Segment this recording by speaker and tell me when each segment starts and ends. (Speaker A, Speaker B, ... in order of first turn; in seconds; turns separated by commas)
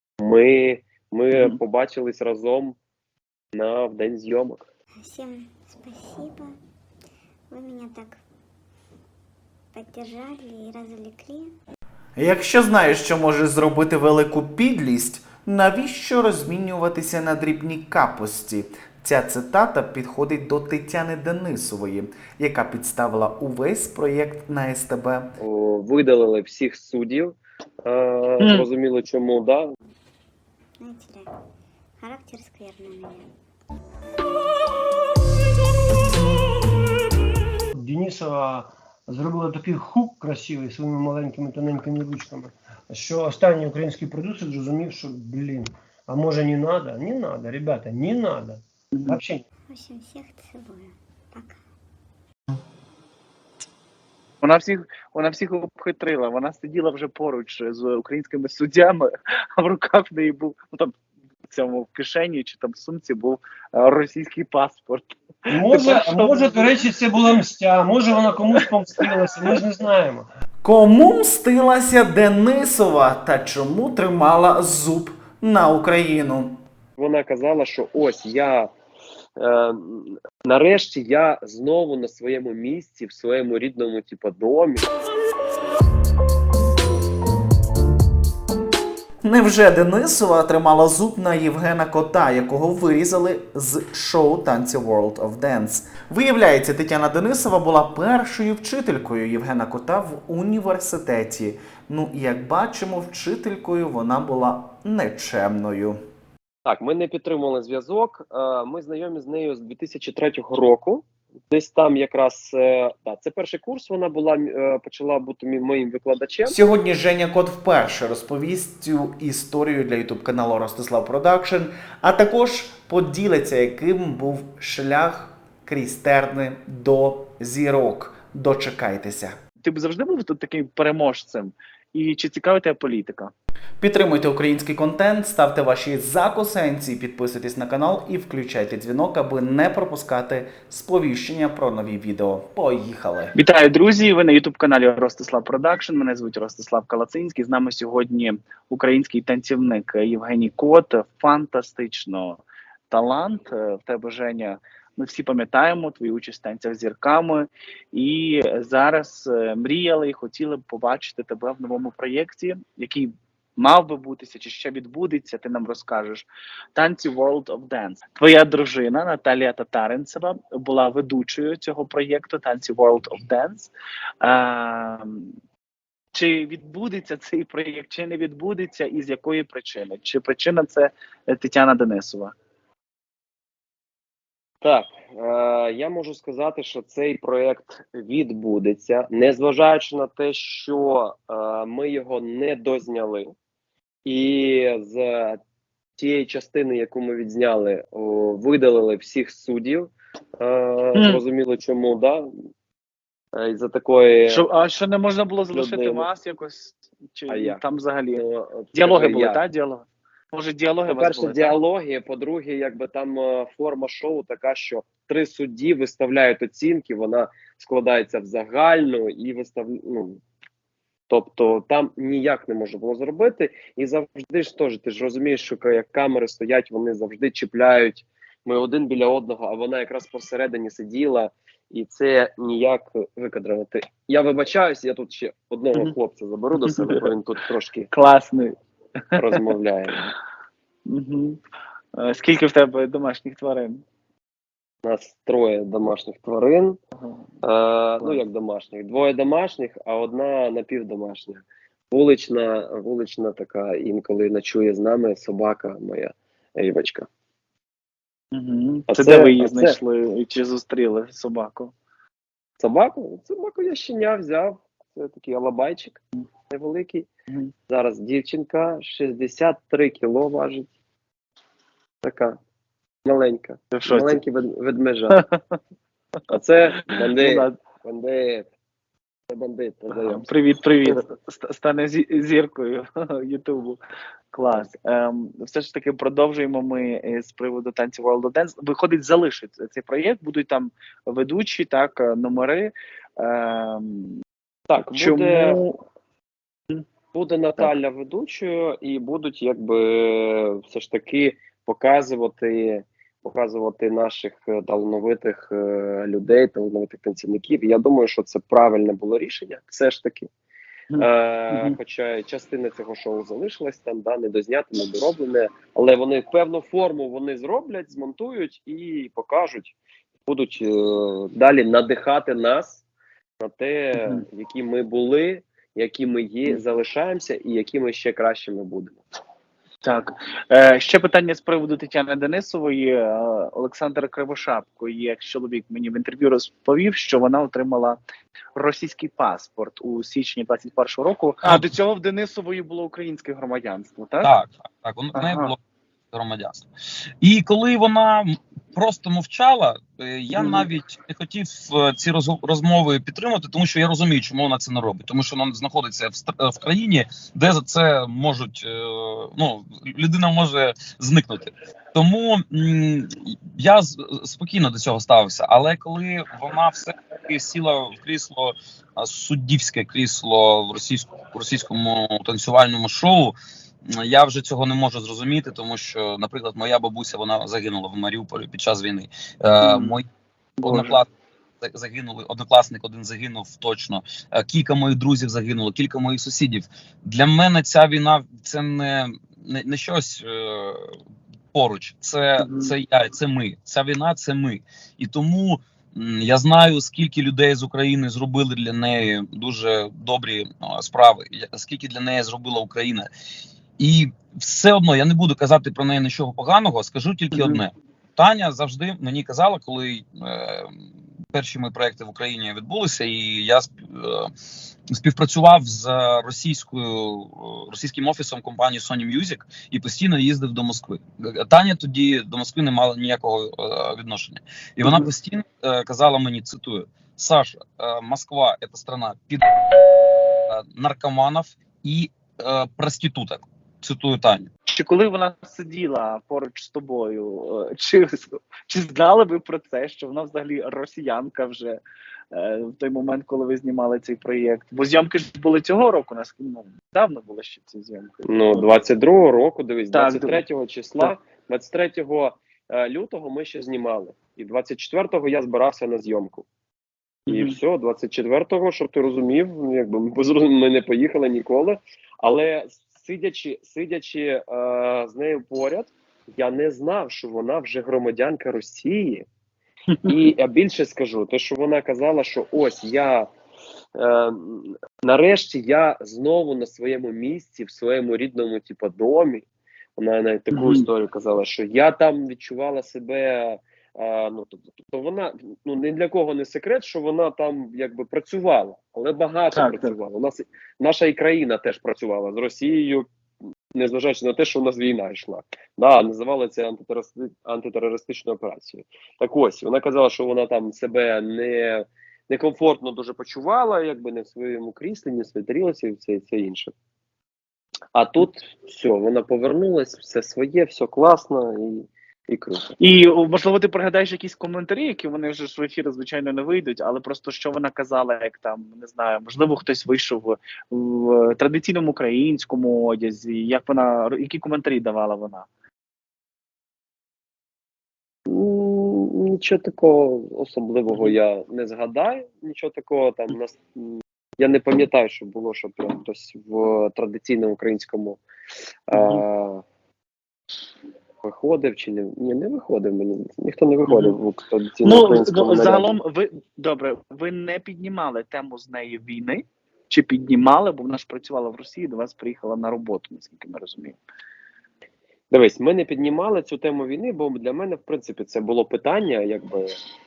Speaker A: 0.2-2.8, Speaker B: 1.3-1.6, Speaker A: 3.5-4.7, Speaker C: 5.0-6.6, Speaker C: 7.5-8.2, Speaker C: 9.7-11.5, Speaker D: 12.2-25.3, Speaker A: 25.4-29.6, Speaker B: 28.4-28.7, Speaker C: 30.8-31.3, Speaker C: 32.0-33.3, Speaker E: 37.8-49.4, Speaker B: 48.9-49.2, Speaker C: 49.7-51.6, Speaker B: 54.4-61.0, Speaker B: 61.5-67.3, Speaker E: 65.5-70.3, Speaker B: 68.5-69.6, Speaker D: 70.6-76.6, Speaker A: 77.0-78.7, Speaker A: 79.4-84.9, Speaker D: 89.2-106.0, Speaker A: 106.7-116.6, Speaker D: 116.5-129.4, Speaker B: 129.6-133.3, Speaker D: 133.8-143.3, Speaker B: 143.3-173.7, Speaker B: 174.2-175.3, Speaker B: 176.1-182.3, Speaker A: 184.6-193.3, Speaker A: 194.1-195.4, Speaker A: 196.0-202.3, Speaker B: 200.9-201.2, Speaker A: 203.4-204.4, Speaker B: 204.3-208.2, Speaker A: 205.5-206.1, Speaker A: 207.3-207.6, Speaker A: 208.2-209.4, Speaker B: 208.7-211.6, Speaker A: 210.9-220.2, Speaker A: 221.1-237.9, Speaker B: 236.6-237.1, Speaker B: 237.9-238.6, Speaker B: 239.1-239.4, Speaker A: 239.2-240.1, Speaker B: 240.9-241.4, Speaker B: 242.0-243.8, Speaker A: 244.8-246.8, Speaker A: 247.4-257.1, Speaker B: 258.3-261.7, Speaker A: 258.9-259.8, Speaker A: 262.6-267.1, Speaker A: 267.7-270.7, Speaker A: 272.0-272.4, Speaker A: 273.1-275.2, Speaker B: 273.7-274.2, Speaker B: 275.1-275.6, Speaker A: 276.3-278.5, Speaker B: 276.8-277.6, Speaker A: 279.3-280.3, Speaker B: 279.9-283.8, Speaker B: 284.3-294.2, Speaker A: 294.7-295.6, Speaker B: 294.8-295.8, Speaker A: 297.1-310.3, Speaker B: 310.9-311.8, Speaker A: 311.0-319.8, Speaker A: 320.3-322.8, Speaker A: 323.4-329.0, Speaker B: 324.0-324.2, Speaker B: 329.8-338.0, Speaker B: 338.6-344.3, Speaker F: 344.2-345.6, Speaker B: 345.1-345.5, Speaker F: 346.1-346.7, Speaker F: 347.2-373.4, Speaker B: 350.3-350.7, Speaker F: 373.9-380.1, Speaker B: 379.6-380.0, Speaker B: 380.6-381.0, Speaker F: 380.6-381.1, Speaker F: 381.6-391.0, Speaker F: 391.5-403.1, Speaker B: 392.4-392.7, Speaker F: 403.8-410.7, Speaker B: 407.3-407.6, Speaker F: 411.3-414.3, Speaker F: 414.9-429.4, Speaker B: 424.8-425.1, Speaker F: 430.5-434.5, Speaker B: 434.7-441.8, Speaker B: 442.3-448.7, Speaker A: 448.2-456.5, Speaker B: 449.9-450.4, Speaker B: 457.3-457.6, Speaker A: 457.3-469.2, Speaker B: 470.0-470.2, Speaker A: 470.1-473.3, Speaker A: 474.0-479.4, Speaker A: 480.0-493.1, Speaker B: 480.5-480.9, Speaker B: 489.5-489.9, Speaker A: 493.8-506.7, Speaker A: 507.9-512.8, Speaker B: 512.8-525.5, Speaker A: 528.3-538.2, Speaker B: 530.9-531.2, Speaker A: 538.9-539.6, Speaker B: 538.9-539.2, Speaker A: 541.2-545.9, Speaker B: 543.9-544.2, Speaker B: 544.8-554.0, Speaker A: 555.3-559.7